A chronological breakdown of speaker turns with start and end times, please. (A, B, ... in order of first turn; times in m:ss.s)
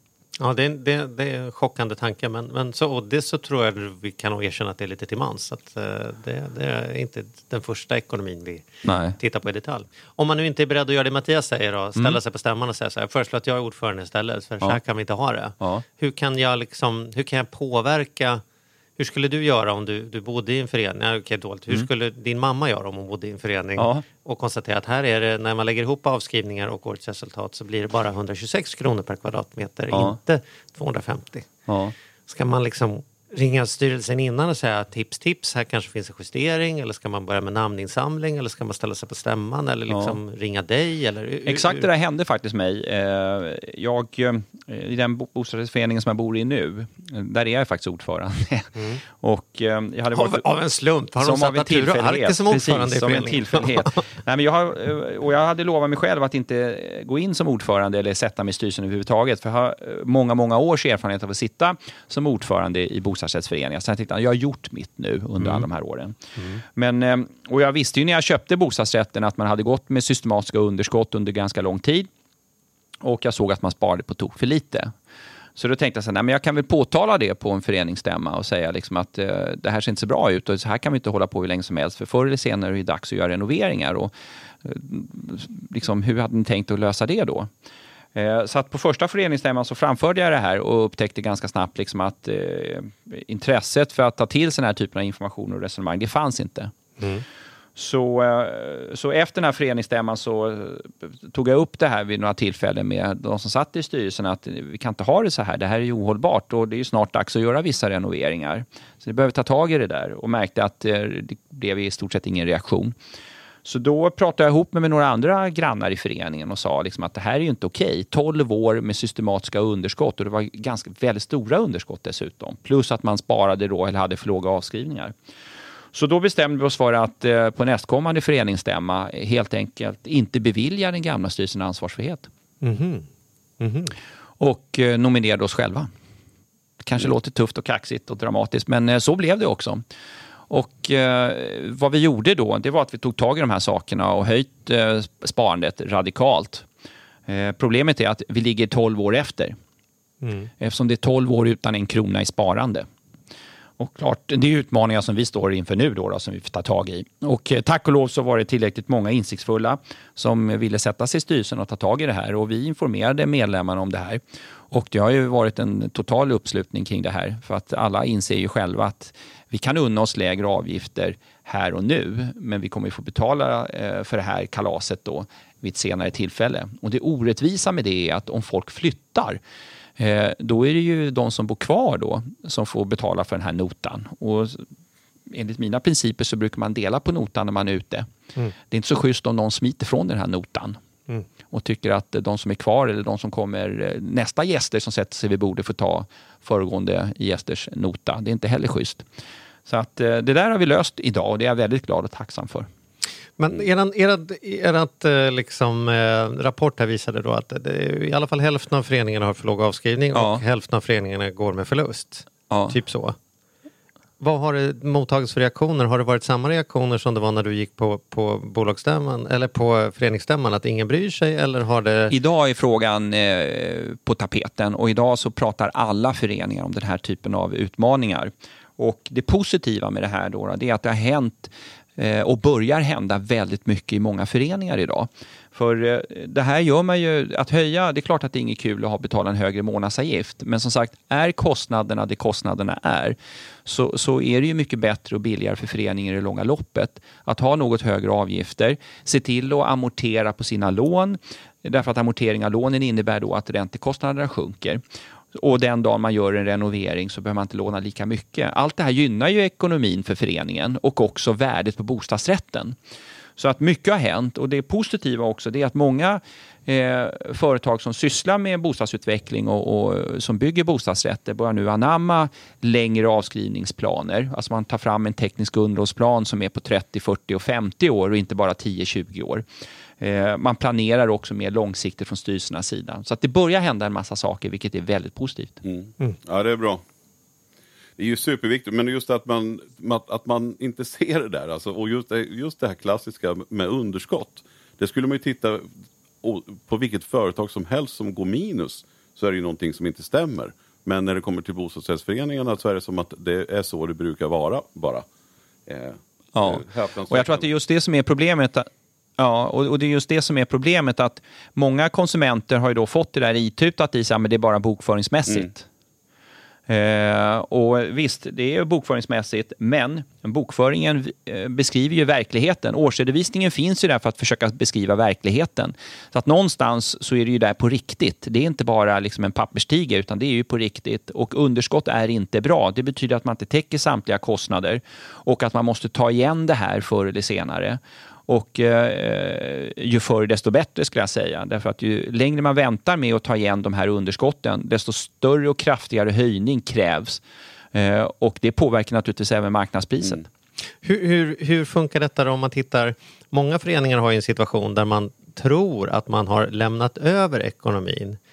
0:00.4-0:08.7 A
0:08.8-0:09.2 B
0:09.2-0:18.4 A
0:15.6-0:15.8 B
0:19.0-0:31.5 A
0:23.8-0:24.1 B
0:29.9-0:30.2 B
0:31.7-0:31.9 B
0:32.3-0:41.9 A
0:39.9-0:40.2 B
0:41.5-0:50.4 B
0:50.1-0:53.9 A
0:51.2-1:06.2 B
1:06.8-1:12.1 B
1:13.0-1:14.9 B
1:15.6-1:24.1 B
1:24.6-1:27.5 B
1:28.2-1:36.7 B
1:37.0-1:37.2 A
1:37.8-1:53.0 B
1:53.6-2:05.1 B
2:05.9-2:12.3 B
2:12.6-2:13.1 A
2:13.6-2:13.9 A
2:14.4-2:15.9 B
2:16.8-2:19.8 B
2:20.5-2:26.7 B
2:27.3-2:29.6 B
2:30.2-2:30.5 A
2:30.6-2:32.9 B
2:33.8-2:59.4 B
3:00.0-3:04.7 B
3:05.3-3:08.1 B
3:08.7-3:10.8 B
3:11.5-3:19.0 B
3:19.7-3:22.7 B
3:23.4-3:33.2 A
3:30.1-3:30.4 B
3:32.5-3:32.8 B
3:34.2-3:42.2 A
3:42.1-4:14.8 B
4:15.3-4:22.8 B
4:23.4-4:39.4 B
4:40.0-4:45.6 B
4:45.6-4:46.8 C
4:48.0-4:55.7 C
4:56.2-5:05.1 C
5:05.7-5:07.5 C
5:06.4-5:15.7 B
5:16.7-5:47.2 B
5:47.7-5:50.2 B
5:50.8-5:58.2 A